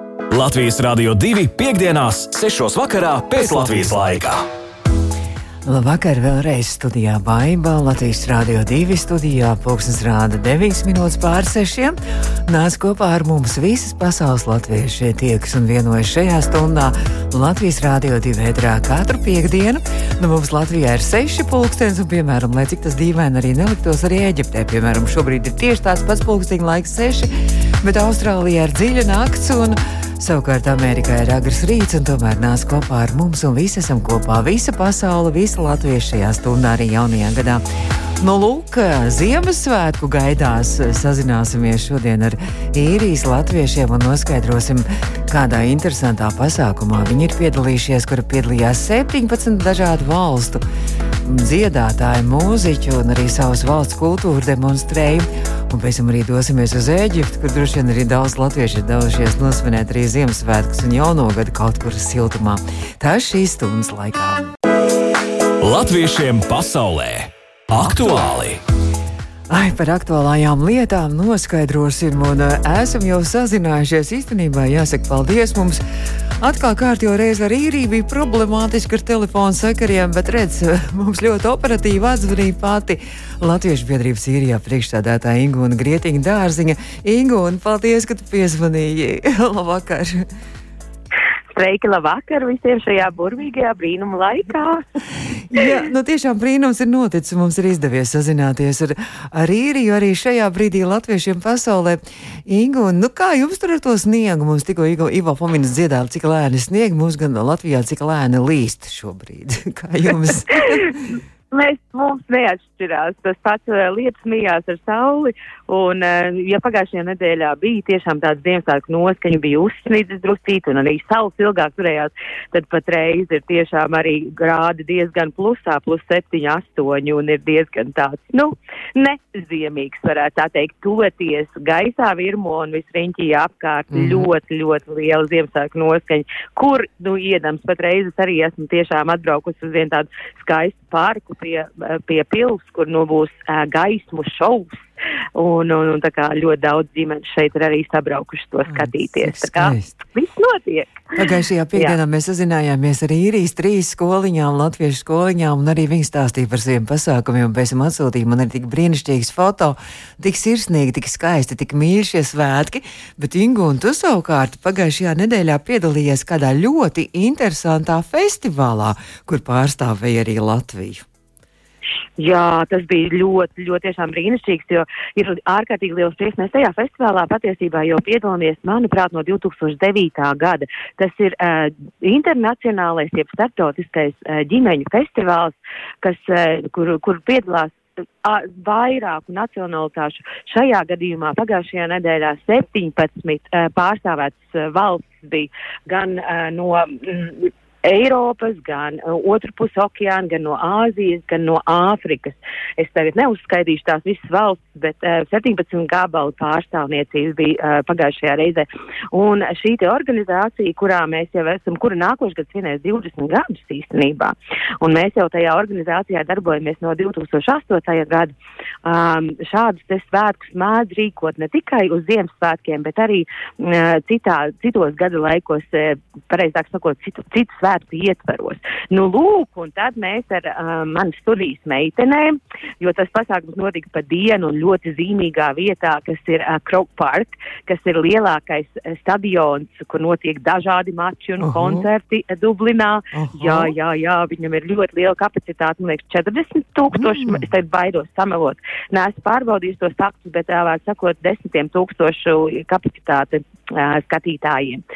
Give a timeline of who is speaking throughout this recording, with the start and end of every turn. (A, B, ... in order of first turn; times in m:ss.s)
0:00.3-0:04.4 A
0:05.7-0:12.0 B
0:12.5-0:37.6 B
0:38.2-0:50.6 B
0:51.2-1:04.5 B
1:05.6-1:08.6 A
1:09.5-1:15.8 B
1:16.4-1:30.2 B
1:31.5-1:34.8 C
1:35.5-1:50.9 B
1:50.5-1:51.0 C
1:51.5-2:24.9 C
2:13.9-2:14.3 B
2:25.4-2:31.1 C
2:28.7-2:30.0 B
2:31.2-2:51.0 B
2:52.2-3:38.3 C
3:38.8-4:14.8 C
4:01.4-4:01.9 B
4:03.1-4:03.8 B
4:06.9-4:07.5 B